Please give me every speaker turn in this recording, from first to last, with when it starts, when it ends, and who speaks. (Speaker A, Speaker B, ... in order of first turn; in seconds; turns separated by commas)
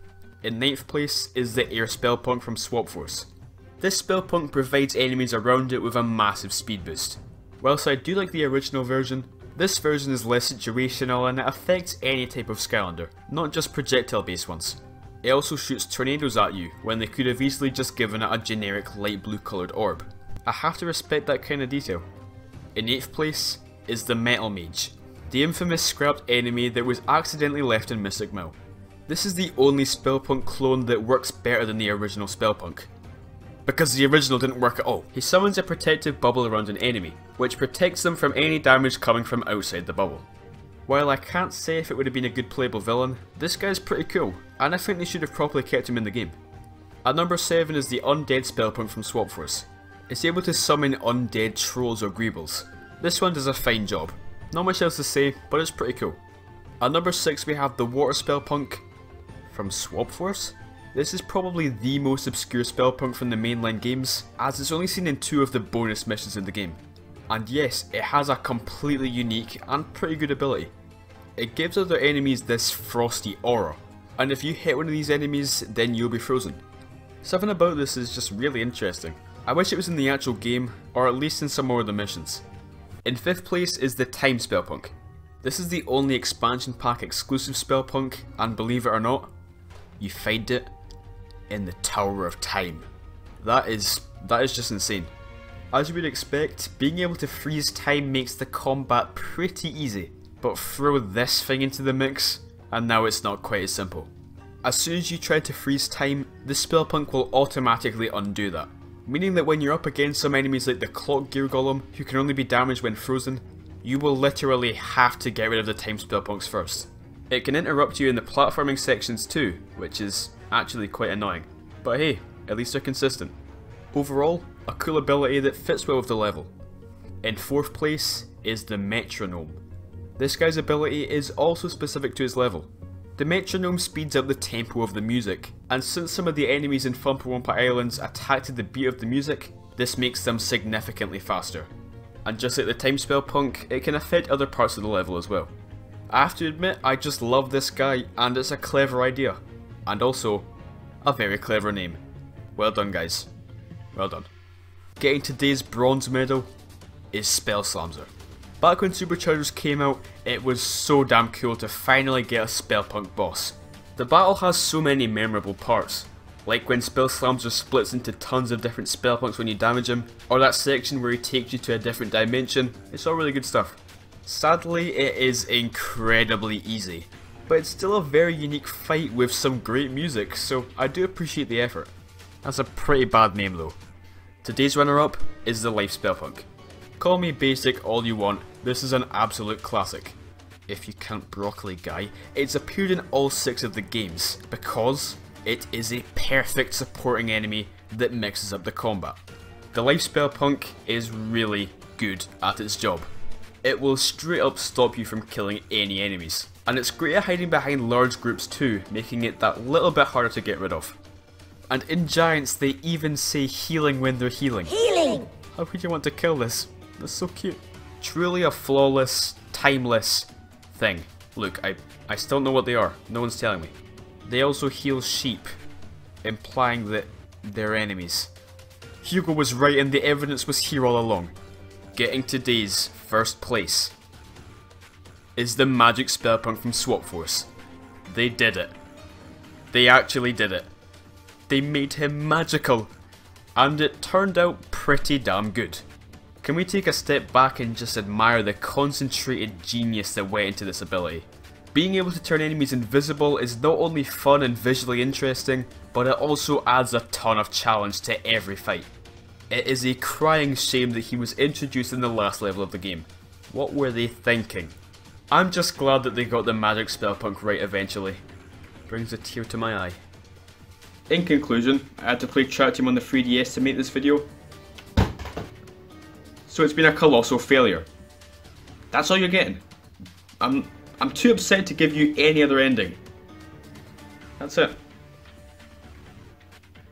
Speaker A: 0.4-22.1, Speaker A: 22.7-28.6, Speaker A: 29.1-32.9, Speaker A: 33.6-40.3, Speaker A: 40.9-46.4, Speaker A: 47.0-56.2, Speaker A: 56.8-58.8, Speaker A: 59.5-70.7, Speaker A: 71.4-76.6, Speaker A: 77.2-82.4, Speaker A: 83.0-89.3, Speaker A: 90.0-90.7, Speaker A: 91.5-92.9, Speaker A: 93.4-95.1, Speaker A: 95.7-104.1, Speaker A: 104.6-123.3, Speaker A: 123.9-126.5, Speaker A: 127.2-129.6, Speaker A: 130.2-141.7, Speaker A: 142.2-145.5, Speaker A: 146.1-150.5, Speaker A: 151.0-152.0, Speaker A: 152.5-153.3, Speaker A: 153.9-154.3, Speaker A: 155.0-156.5, Speaker A: 157.1-181.9, Speaker A: 182.4-183.8, Speaker A: 184.4-186.5, Speaker A: 187.0-199.2, Speaker A: 199.7-203.1, Speaker A: 203.6-210.9, Speaker A: 211.7-225.5, Speaker A: 226.2-228.3, Speaker A: 229.0-231.3, Speaker A: 231.9-233.9, Speaker A: 235.3-237.5, Speaker A: 238.1-238.7, Speaker A: 239.7-240.7, Speaker A: 241.5-242.9, Speaker A: 243.6-245.8, Speaker A: 246.4-258.9, Speaker A: 259.5-264.7, Speaker A: 265.3-268.2, Speaker A: 268.9-270.0, Speaker A: 271.1-274.3, Speaker A: 276.4-277.9, Speaker A: 278.9-279.6, Speaker A: 280.4-283.0, Speaker A: 284.4-284.8